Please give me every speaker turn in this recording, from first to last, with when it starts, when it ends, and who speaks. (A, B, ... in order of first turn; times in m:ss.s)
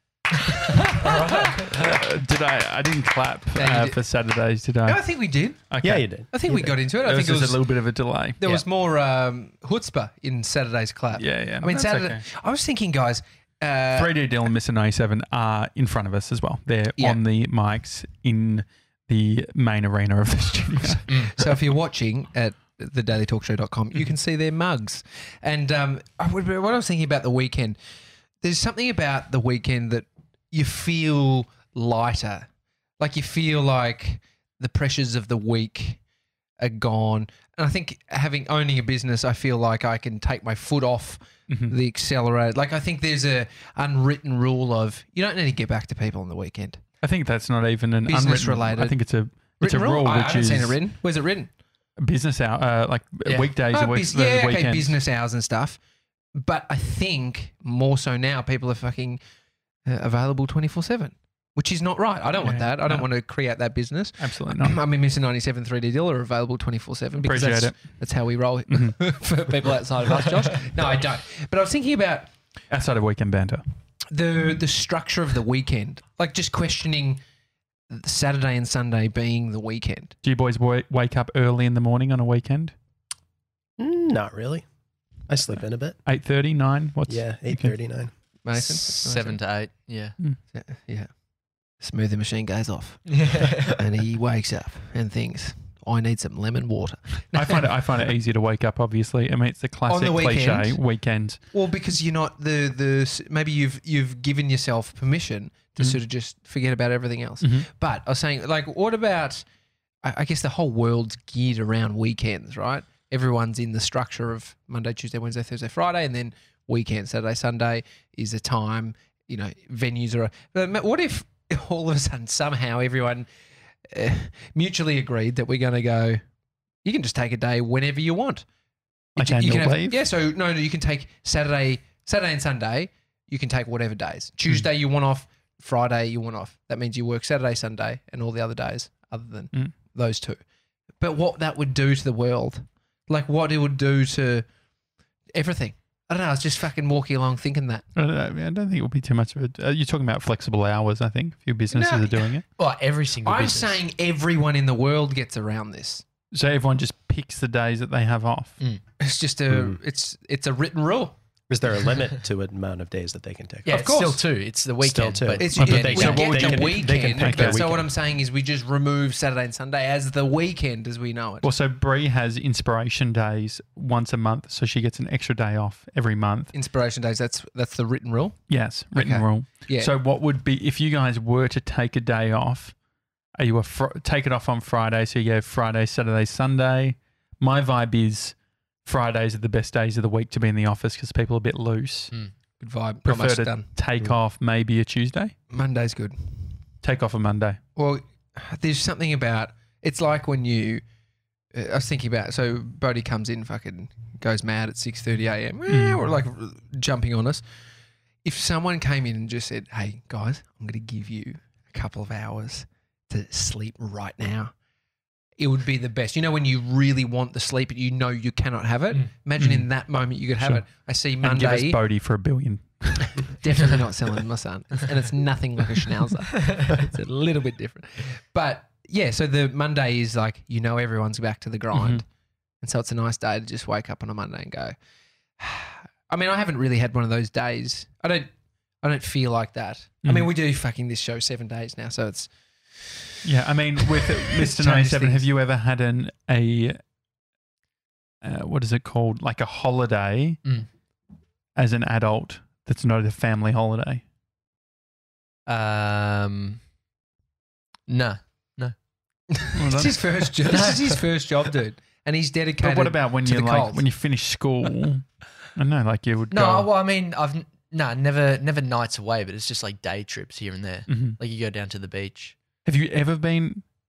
0:00.9-0:01.5 A
0:01.0-0:02.0 B
0:01.0-0:05.0 C
0:03.6-0:04.0 A
0:04.8-0:05.7 A
0:05.7-0:08.6 C
0:05.8-0:06.6 D
0:06.3-0:07.6 A
0:08.4-0:14.2 A
0:11.2-0:12.2 C
0:13.9-0:21.1 C
0:20.9-0:27.8 A
0:28.4-0:32.5 A
0:33.0-0:36.0 A
0:36.6-0:46.8 A
0:41.5-0:41.8 C
0:47.0-0:50.8 C
0:48.1-0:49.0 A
0:49.6-0:51.5 A
0:52.0-0:55.0 C
0:53.7-0:55.8 A
0:56.4-0:59.2 A
0:59.8-1:12.3 A
1:02.4-1:03.1 C
1:04.2-1:04.8 C
1:07.2-1:07.8 C
1:08.7-1:09.0 C
1:12.7-1:13.6 C
1:14.1-1:17.2 A
1:17.9-1:20.2 A
1:20.2-1:22.7 C
1:23.8-1:24.7 D
1:25.3-1:26.0 D
1:26.1-1:27.8 C
1:27.1-1:28.1 D
1:28.4-1:29.4 A
1:28.8-1:30.2 B
1:30.5-1:31.1 A
1:31.8-1:37.7 A
1:33.1-1:33.7 B
1:37.3-1:41.4 C
1:39.9-1:40.8 A
1:41.5-1:49.4 A
1:47.4-1:47.7 C
1:50.0-2:03.3 A
2:03.9-2:06.2 A
2:06.8-2:08.4 A
2:09.2-2:20.4 A
2:09.2-2:10.0 C
2:21.0-2:24.5 A
2:25.3-2:27.9 A
2:28.0-2:32.4 C
2:31.7-2:32.4 A
2:32.6-2:33.8 B
2:33.2-2:36.0 A
2:36.3-2:38.6 C
2:39.0-2:41.2 A
2:39.5-2:39.8 D
2:41.5-2:43.8 D
2:43.7-2:46.2 B
2:43.7-2:44.2 A
2:44.8-2:47.8 D
2:45.3-2:51.5 A
2:45.6-2:47.8 C
2:51.4-2:56.5 C
2:56.5-2:58.4 A
2:58.5-3:02.8 C
2:58.9-2:59.9 A
3:03.4-3:12.1 C
3:12.6-3:13.7 A
3:13.0-3:15.4 C
3:15.5-3:16.6 A
3:16.8-3:17.6 C
3:17.8-3:20.8 A
3:21.5-3:27.4 A
3:25.7-3:26.0 C
3:28.2-3:34.5 A
3:35.4-3:41.8 A
3:39.4-3:39.7 C
3:41.2-3:43.4 C
3:43.2-3:52.0 A
3:51.7-3:52.0 C
3:52.6-3:54.8 A
3:55.4-3:58.3 A
3:58.8-4:03.1 A
4:00.0-4:00.3 C
4:03.2-4:06.8 C
4:04.2-4:05.2 A
4:08.2-4:10.4 C
4:11.6-4:14.0 C
4:15.5-4:16.6 B
4:17.9-4:18.7 B
4:19.3-4:23.8 A
4:19.6-4:20.0 C
4:20.4-4:21.0 B
4:22.6-4:26.7 C
4:26.3-4:32.4 B
4:30.9-4:31.2 C
4:32.6-4:33.6 C